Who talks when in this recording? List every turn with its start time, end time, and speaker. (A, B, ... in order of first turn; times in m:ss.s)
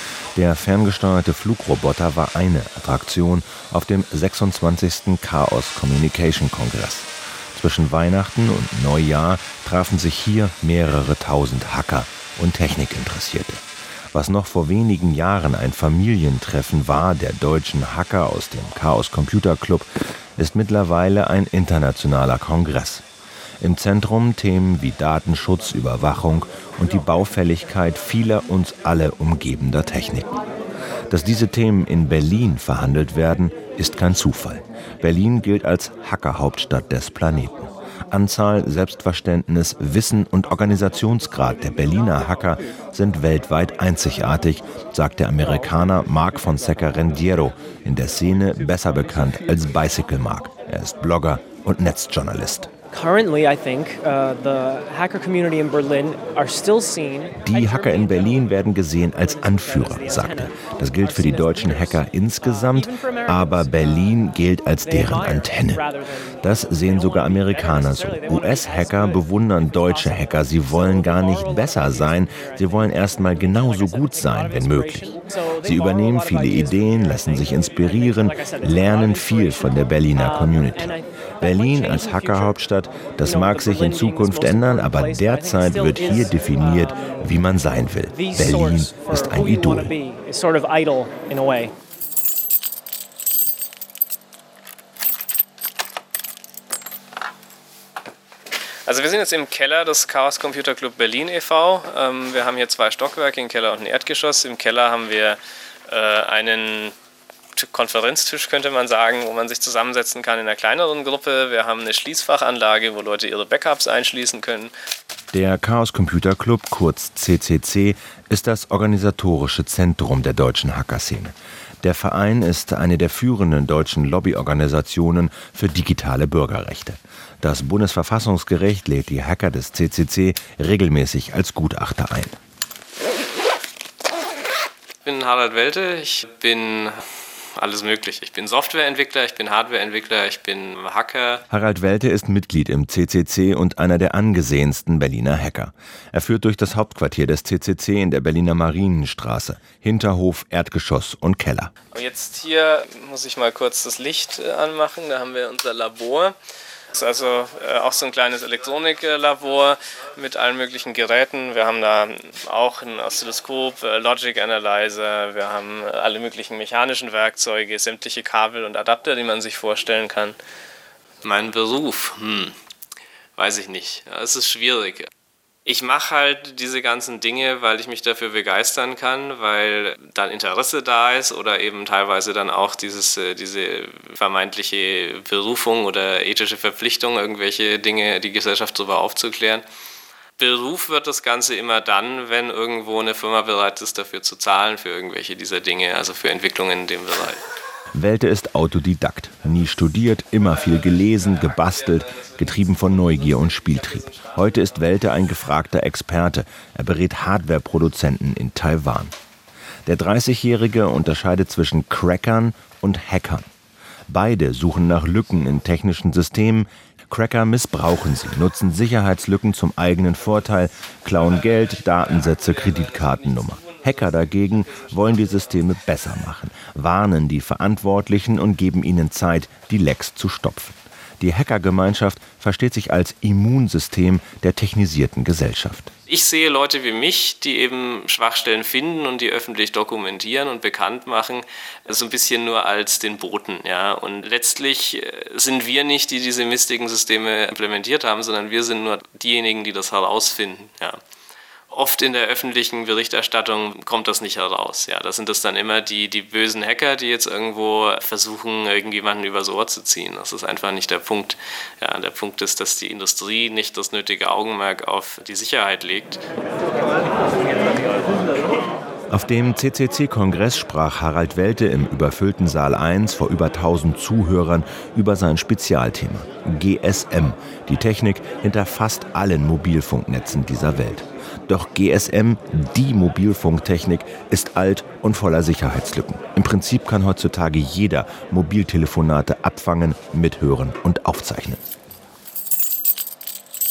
0:00.4-0:23.0 A
0:23.6-0:30.3 A
0:31.1-0:52.7 A
0:52.9-1:04.1 B
0:57.4-1:05.9 A
1:04.8-1:22.6 B
1:06.4-1:30.0 A
1:23.2-1:27.3 B
1:28.1-1:31.7 B
1:38.9-1:46.9 C
1:47.6-1:54.7 C
1:55.3-2:12.4 A
2:15.0-2:17.0 C
2:17.6-2:21.4 C
2:21.5-2:31.7 A
2:31.9-2:36.4 C
2:37.0-2:50.4 C
2:51.2-2:52.5 C
2:53.4-2:55.1 C
2:55.7-3:09.6 C
3:10.4-3:17.4 C
3:18.0-3:29.1 A
3:20.4-3:25.2 C
3:29.9-3:33.5 A
3:34.1-3:55.9 A
3:41.3-3:46.0 C
3:56.1-4:11.0 C
4:11.7-4:26.2 C
4:29.1-4:51.6 A